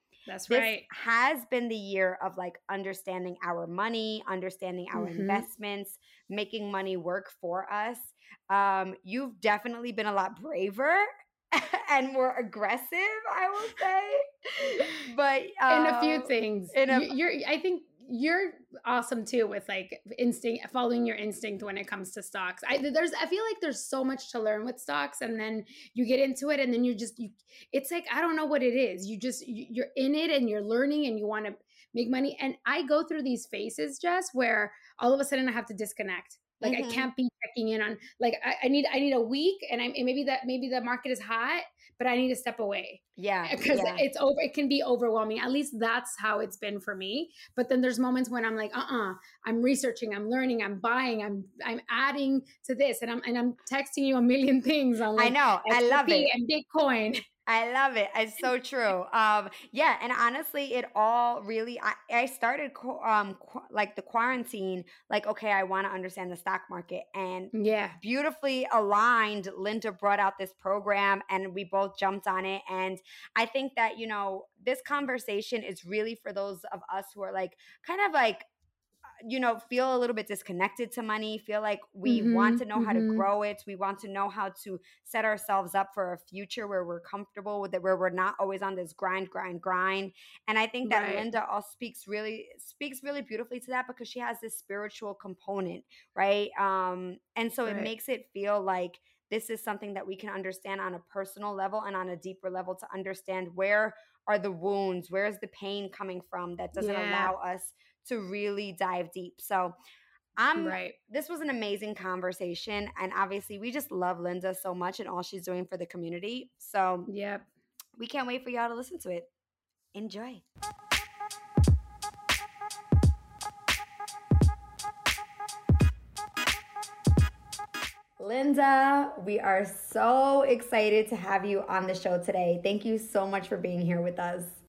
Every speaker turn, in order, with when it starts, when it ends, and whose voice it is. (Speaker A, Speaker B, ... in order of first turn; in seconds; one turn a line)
Speaker A: 0.3-0.8
Speaker B: 0.5-17.1
Speaker A: 4.9-5.4
Speaker A: 15.7-57.2
Speaker B: 36.6-37.1
Speaker B: 43.2-44.0
Speaker B: 55.1-56.3
Speaker B: 57.5-78.5
Speaker A: 67.5-68.0
Speaker B: 79.2-109.8
Speaker A: 82.0-83.2
Speaker A: 90.9-91.2
Speaker A: 106.8-107.3
Speaker B: 110.4-117.1
Speaker A: 110.6-111.0
Speaker A: 117.1-117.5
Speaker B: 118.0-119.3
Speaker B: 119.9-120.4
Speaker B: 128.2-134.6